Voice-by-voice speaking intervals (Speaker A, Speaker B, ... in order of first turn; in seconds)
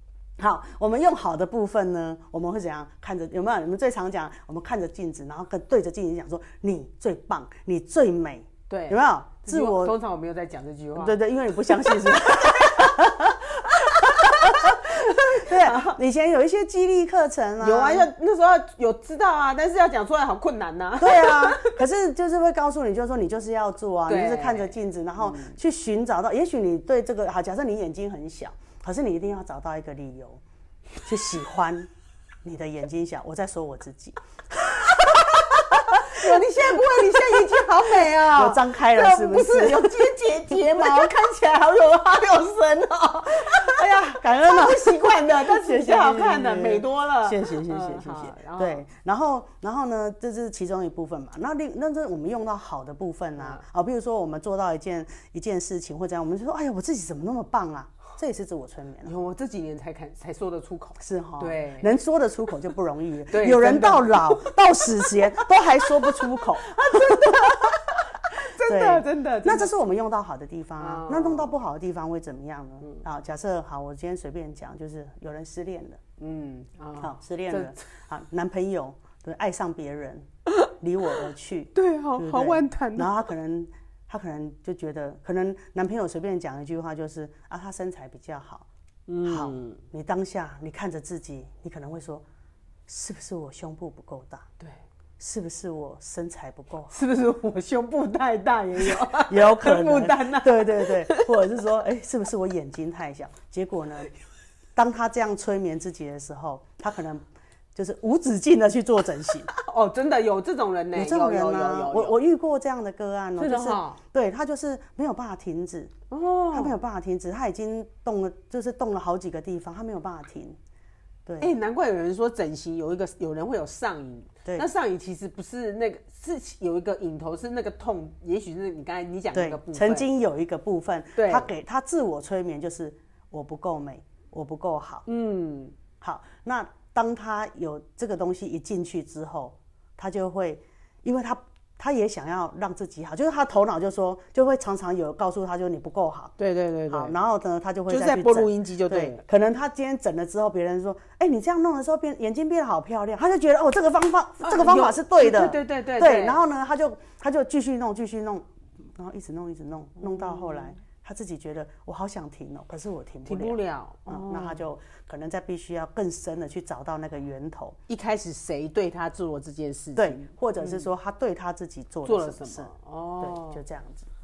Speaker A: 0.4-10.0, 11.0-18.1, 21.0-30.4, 31.0-31.9, 32.4-41.1, 43.5-59.1, 61.0-67.8, 68.5-76.0, 77.0-80.3, 80.8-88.7, 89.2-92.2, 92.9-94.5, 95.2-96.9, 98.8-104.1, 104.8-109.5, 110.9-115.9, 116.5-120.6, 121.2-121.5, 129.3-135.0, 136.0-146.3, 146.9-167.8, 170.0-174.1
Speaker B: 8.7-13.0, 13.6-16.0, 17.6-21.8, 24.1-25.6, 34.8-48.8, 53.4-53.6, 59.0-61.9, 63.3-69.7, 70.8-71.5, 76.2-77.8, 81.7-83.1, 89.1-89.8, 96.9-101.4, 109.5-112.2, 113.4-114.0, 116.1-116.8, 121.4-130.1, 131.2-131.5, 135.1-135.8, 146.4-147.2, 147.9-149.2, 154.4-156.4, 160.0-160.7, 163.2-164.6, 167.9-170.9, 172.0-173.6